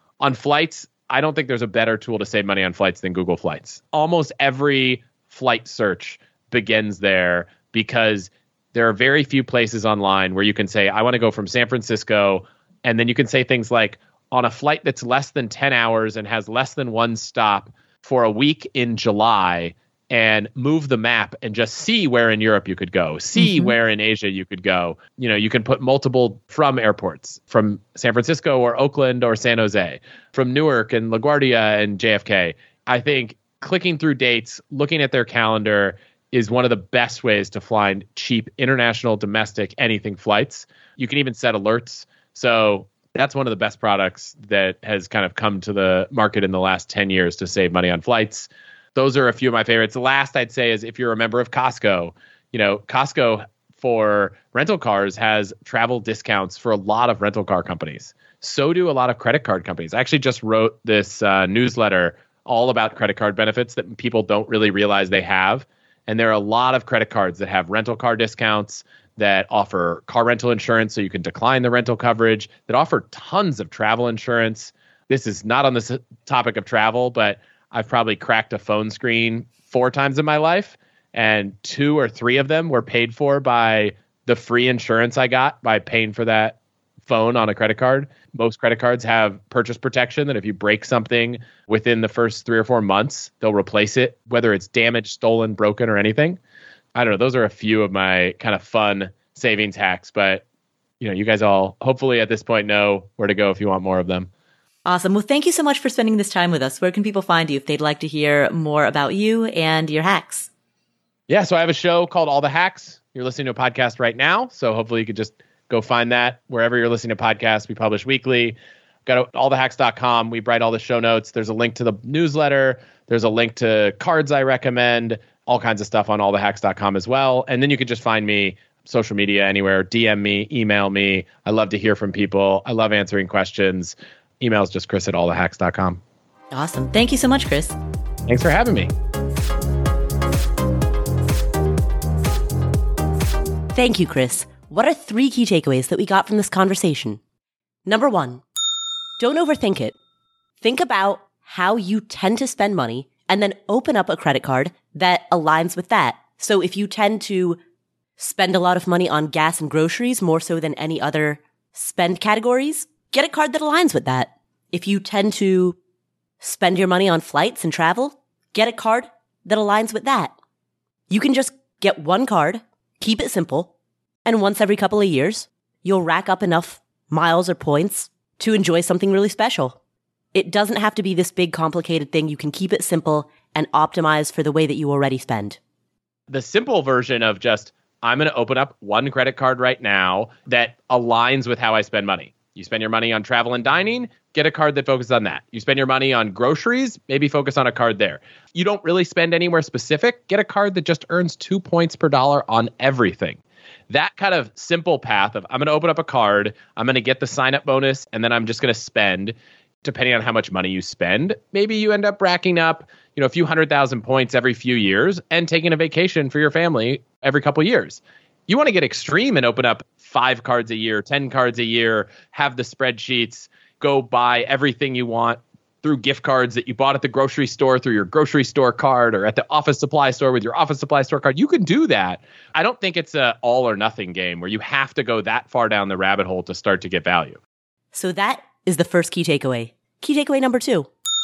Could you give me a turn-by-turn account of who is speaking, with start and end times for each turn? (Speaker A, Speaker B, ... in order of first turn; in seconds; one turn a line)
Speaker A: 0.2-96.4
Speaker B: 23.4-23.7
Speaker A: 97.0-100.4
Speaker A: 101.0-104.3
Speaker B: 104.9-110.5
Speaker A: 111.3-136.0
Speaker B: 136.5-137.8
Speaker A: 138.3-138.9
Speaker B: 143.8-147.2
Speaker B: 147.9-148.4
Speaker B: 149.2-150.0
Speaker B: 150.6-157.6
Speaker B: 158.2-165.8
Speaker B: 166.4-170.4
Speaker B: 171.1-173.7
Speaker B: 174.2-179.8
Speaker B: 180.3-185.6
Speaker A: 186.3-237.4
Speaker B: 237.9-240.9